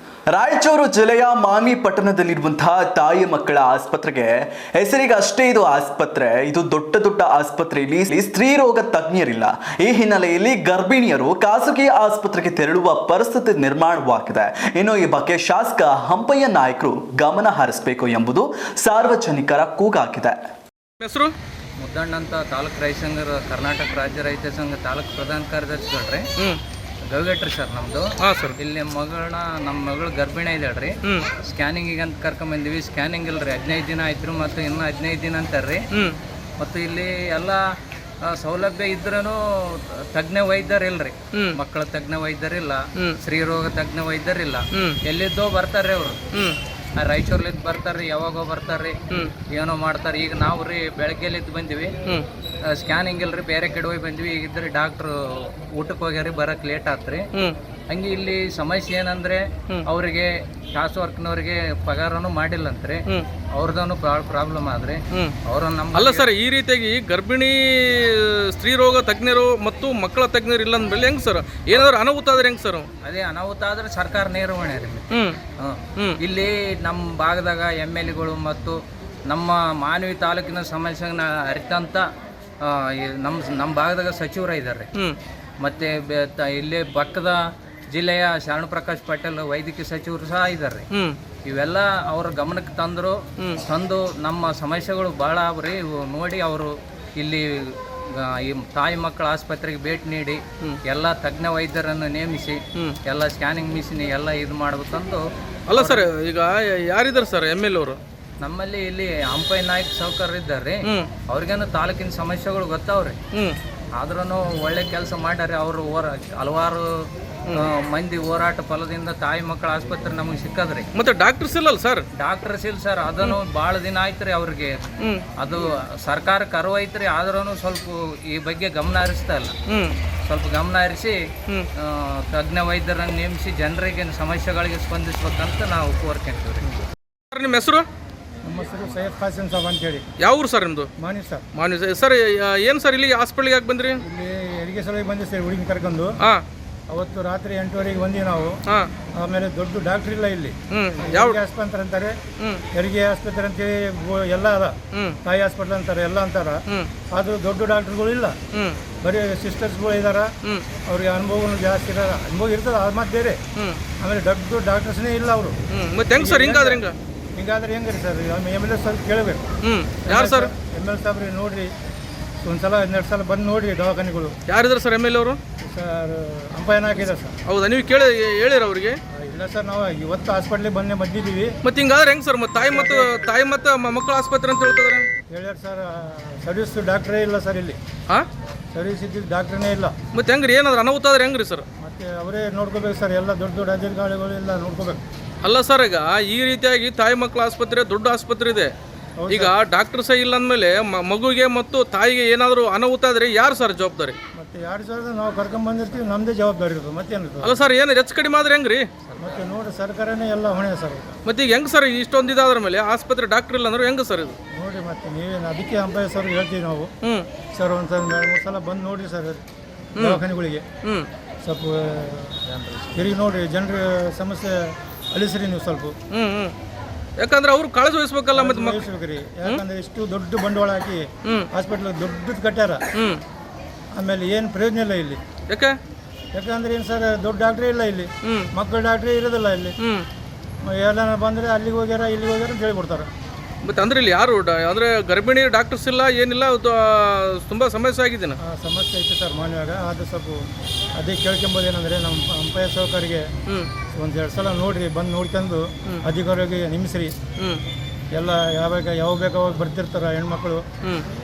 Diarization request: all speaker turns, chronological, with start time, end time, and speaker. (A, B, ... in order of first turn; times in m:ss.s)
0:00.3-0:20.4 A
0:21.0-0:21.3 B
0:21.8-0:26.2 C
0:27.1-0:30.9 C
0:28.2-0:28.6 B
0:31.4-0:35.8 C
0:36.6-0:37.6 C
0:38.3-0:46.2 C
0:47.0-0:49.0 C
0:49.5-0:51.9 C
0:52.8-0:57.2 C
0:57.9-1:06.3 C
1:06.0-1:12.9 B
1:13.0-1:22.0 C
1:15.1-1:15.4 B
1:22.6-1:24.9 C
1:25.6-1:27.4 C
1:27.9-1:30.9 C
1:31.5-1:45.2 C
1:45.7-1:48.0 B
1:45.7-1:46.1 C
1:48.4-1:53.2 C
1:54.0-1:56.8 C
1:57.5-2:00.9 C
2:01.0-2:02.0 B
2:02.2-2:04.8 C
2:05.4-2:09.6 C
2:09.7-2:10.0 B
2:10.2-2:11.2 C
2:11.8-2:16.8 C
2:17.3-2:17.8 B
2:18.4-2:20.0 D
2:20.2-2:20.9 B
2:21.0-2:21.4 D
2:21.6-2:24.0 B
2:24.1-2:26.1 D
2:26.9-2:28.5 D
2:29.2-2:30.5 D
2:30.7-2:31.4 B
2:31.2-2:32.1 D
2:32.8-2:34.7 D
2:35.3-2:36.6 D
2:37.1-2:38.3 D
2:38.5-2:38.8 B
2:39.0-2:40.3 D
2:40.9-2:43.4 D
2:44.0-2:45.5 D
2:45.7-2:47.0 B
2:46.2-2:46.8 D
2:47.4-2:49.4 D
2:49.6-2:50.5 B
2:50.1-2:51.7 D
2:52.4-2:54.3 D
2:54.5-2:55.4 B
2:55.6-2:57.3 D
2:57.5-2:59.0 B
2:59.3-3:01.5 D
3:01.6-3:05.1 B
3:02.7-3:03.2 D
3:05.3-3:07.8 D
3:08.8-3:09.9 D
3:10.1-3:11.6 B
3:11.8-3:15.0 D
3:15.4-3:18.7 B
3:19.3-3:24.2 B
3:24.4-3:27.5 D
3:27.4-3:28.9 B
3:29.1-3:29.5 C
3:29.2-3:31.1 D
3:31.3-3:34.4 B
3:34.6-3:36.9 D
3:37.6-3:39.4 D
3:40.0-3:40.2 B
3:40.0-3:40.6 D
3:41.4-3:42.4 D
3:42.5-3:43.1 C
3:43.0-3:44.5 D
3:45.1-3:45.9 D
3:46.1-3:46.5 B
3:47.2-3:48.8 B
3:48.4-3:51.0 D
3:51.5-3:52.8 D
3:53.0-3:53.2 B
3:54.0-3:55.2 D
3:55.5-3:55.8 B
3:56.4-3:58.1 D
3:58.6-3:59.7 D
4:00.7-4:03.1 D
4:03.6-4:08.4 B
4:08.5-4:10.4 D
4:11.0-4:13.2 D
4:14.0-4:17.1 D
4:18.2-4:20.6 D